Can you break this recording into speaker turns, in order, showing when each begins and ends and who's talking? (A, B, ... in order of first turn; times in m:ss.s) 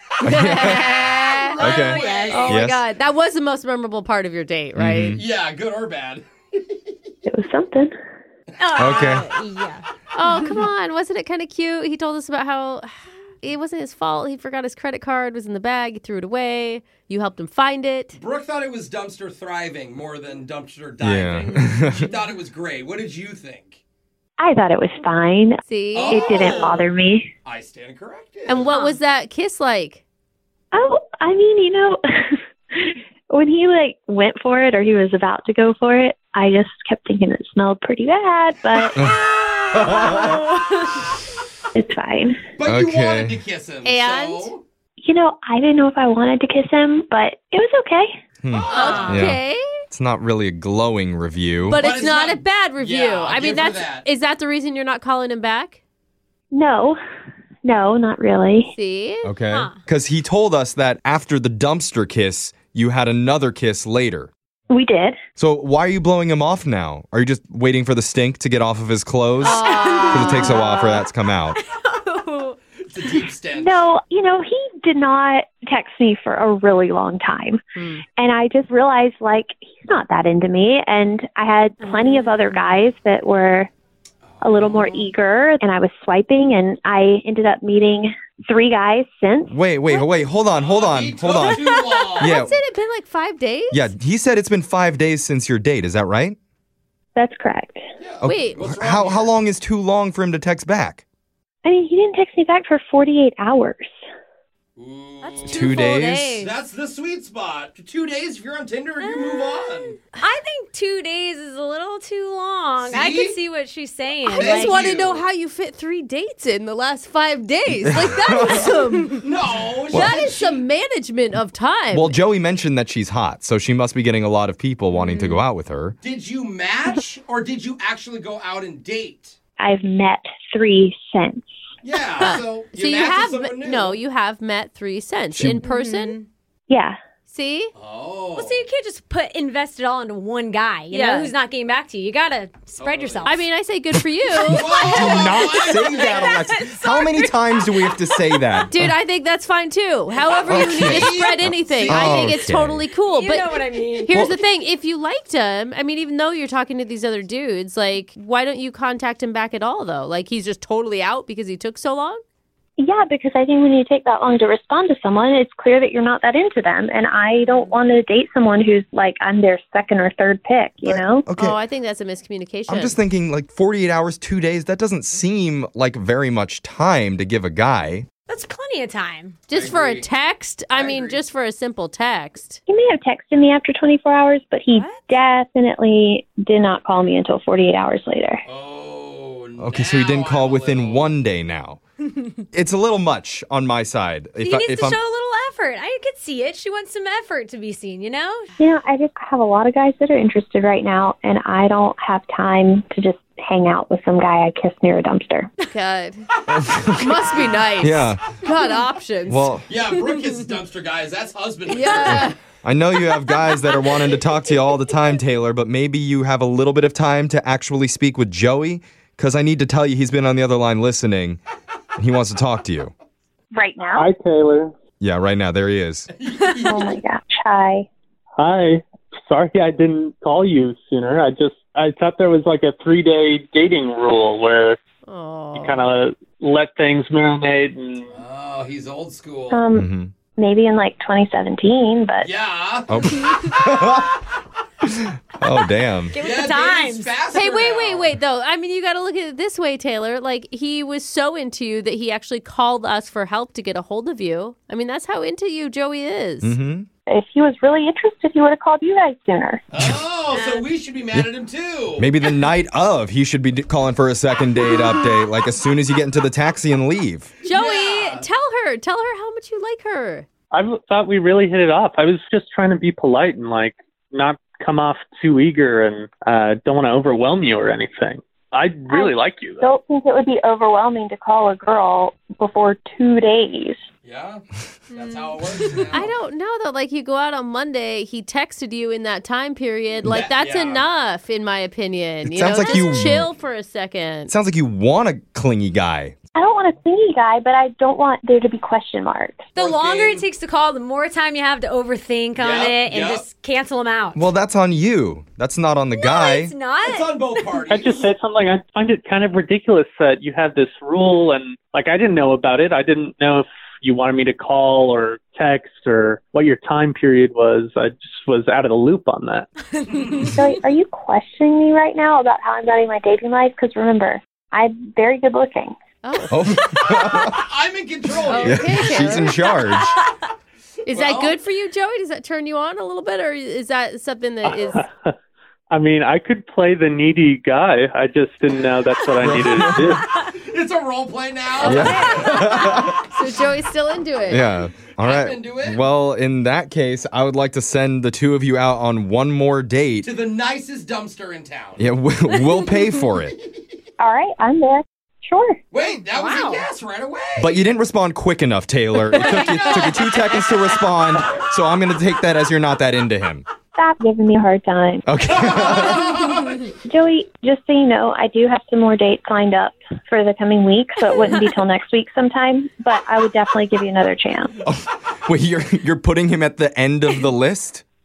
0:00.2-0:01.0 A
0:00.3-0:05.2 B
0:00.8-0:02.6 C
0:01.2-0:02.7 D
0:01.6-0:02.8 A
0:04.8-0:05.2 A
0:05.2-0:06.9 C
0:07.3-0:07.9 E
0:08.6-0:09.9 D
0:08.6-0:09.2 C
0:08.8-0:09.3 A
0:10.2-0:18.2 B
0:18.2-0:23.8 C
0:21.0-0:22.1 A
0:24.4-0:27.3 E
0:25.7-0:26.4 B
0:25.9-0:26.9 C
0:27.4-0:28.8 C
0:28.5-0:30.0 B
0:28.7-0:29.0 D
0:30.7-0:39.0 E
0:39.0-0:40.2 D
0:39.0-0:39.2 A
0:39.8-0:40.4 A
0:40.1-0:41.1 B
0:41.8-0:42.4 E
0:42.6-0:44.6 C
0:42.6-0:43.4 A
0:43.8-0:44.5 B
0:45.0-0:48.1 E
0:48.4-0:51.8 A
0:48.5-0:49.2 C
0:48.7-0:49.3 D
0:48.7-0:49.6 B
0:51.7-0:54.1 C
0:51.7-0:55.8 B
0:56.5-0:57.0 E
0:57.6-0:58.7 E
0:58.7-0:59.3 B
0:59.2-1:04.3 A
0:59.5-0:59.8 D
1:04.7-1:05.2 E
1:05.4-1:11.6 A
1:09.4-1:11.0 B
1:09.6-1:10.7 D
1:11.6-1:12.0 D
1:12.2-1:12.6 B
1:12.9-1:13.8 C
1:13.6-1:17.6 E
1:17.8-1:18.0 B
1:18.2-1:23.7 E
1:21.8-1:22.8 D
1:24.3-1:25.0 C
1:24.4-1:29.5 E
1:29.5-1:31.6 A
1:30.5-1:32.4 C
1:31.3-1:33.9 B
1:32.2-1:32.6 A
1:33.7-1:36.4 A
1:37.2-1:37.8 E
1:38.0-1:39.3 C
1:38.2-1:41.0 A
1:38.2-1:38.6 B
1:41.6-1:43.9 E
1:44.8-1:50.0 C
1:45.2-1:46.5 D
1:45.4-1:46.4 A
1:49.0-1:54.8 D
1:52.8-1:53.4 C
1:54.3-1:55.2 C
1:54.3-1:59.3 B
1:58.0-1:58.7 A
1:59.1-2:00.6 C
1:59.9-2:00.2 A
1:59.9-2:02.2 B
2:01.9-2:06.0 A
2:05.0-2:05.4 D
2:06.0-2:09.4 C
2:09.6-2:11.5 E
2:11.8-2:14.0 C
2:12.2-2:16.2 B
2:15.4-2:15.6 A
2:15.6-2:16.2 D
2:16.7-2:17.0 E
2:17.3-2:17.7 B
2:17.8-2:18.6 C
2:18.3-2:23.4 D
2:20.9-2:21.3 B
2:22.8-2:23.5 C
2:23.2-2:25.0 B
2:24.4-2:26.3 C
2:24.5-2:28.4 D
2:24.5-2:28.9 A
2:28.6-2:42.2 B
2:30.1-2:32.5 C
2:30.5-2:32.9 A
2:33.1-2:34.1 D
2:34.1-2:34.4 A
2:42.8-2:51.3 E
2:50.8-2:51.6 A
2:51.4-2:53.0 B
2:52.7-2:58.1 A
2:58.3-2:59.4 D
2:59.5-3:02.6 B
2:59.5-3:00.1 C
3:00.7-3:01.2 C
3:02.7-3:08.4 E
3:04.7-3:05.2 D
3:08.5-3:11.2 C
3:09.6-3:11.8 A
3:12.5-3:15.0 A
3:14.4-3:18.5 D
3:18.6-3:25.5 E
3:25.7-3:26.2 B
3:26.5-3:27.1 A
3:27.0-3:30.1 B
3:27.8-3:28.2 A
3:29.3-3:29.7 A
3:29.7-3:32.3 C
3:31.7-3:32.4 B
3:32.1-3:41.4 A
3:42.0-3:42.9 A
3:43.5-3:44.1 E
3:44.0-3:44.7 F
3:45.0-3:46.1 A
3:46.2-3:47.0 C
3:46.6-3:47.9 E
3:48.4-3:54.8 F
3:55.1-3:55.9 B
3:55.6-3:58.1 F
3:58.1-3:59.6 C
3:59.5-4:02.3 E
3:59.7-4:00.1 A
4:02.2-4:04.1 C
4:02.9-4:04.1 A
4:04.8-4:06.2 A
4:06.1-4:07.2 D
4:06.2-4:08.2 C
4:07.3-4:16.6 B
4:16.4-4:16.9 A
4:17.1-4:19.6 E
4:19.7-4:22.1 C
4:20.3-4:20.6 D
4:22.0-4:27.3 A
4:24.7-4:25.0 B
4:27.4-4:30.3 B
4:27.5-4:28.3 C
4:30.5-4:39.7 F
4:38.9-4:43.8 E
4:44.0-4:46.2 C
4:45.9-4:54.3 B
4:50.0-4:50.9 C
4:52.2-4:53.3 A
4:52.5-4:53.1 D
4:54.3-4:56.2 A
4:56.4-4:59.5 E
4:59.6-5:04.3 D
4:59.6-5:00.2 C
5:02.4-5:03.2 C
5:04.2-5:06.5 A
5:05.9-5:07.6 D
5:06.8-5:08.1 C
5:07.7-5:19.5 F
5:19.8-5:20.4 D
5:20.2-5:25.8 E
5:26.0-5:26.4 B
5:26.3-5:27.4 A
5:26.7-5:28.9 C
5:28.3-5:29.8 B
5:28.4-5:30.0 A
5:30.9-5:34.9 B
5:30.9-5:31.4 C
5:34.4-5:35.2 F
5:35.7-5:40.0 F
5:39.2-5:40.0 A
5:40.2-5:43.2 C
5:41.6-5:41.9 B
5:41.6-5:42.8 D
5:41.6-5:43.0 A
5:43.0-5:44.5 B
5:44.3-5:50.1 A
5:45.0-5:45.8 C
5:50.0-5:51.8 C
5:51.8-5:53.4 A
5:54.0-5:55.6 E
5:55.7-5:57.6 C
5:56.1-5:56.7 D
5:57.4-6:03.5 A
6:03.8-6:05.1 E
6:05.1-6:06.1 A
6:05.4-6:06.7 C
6:06.8-6:14.5 E
6:14.6-6:17.8 A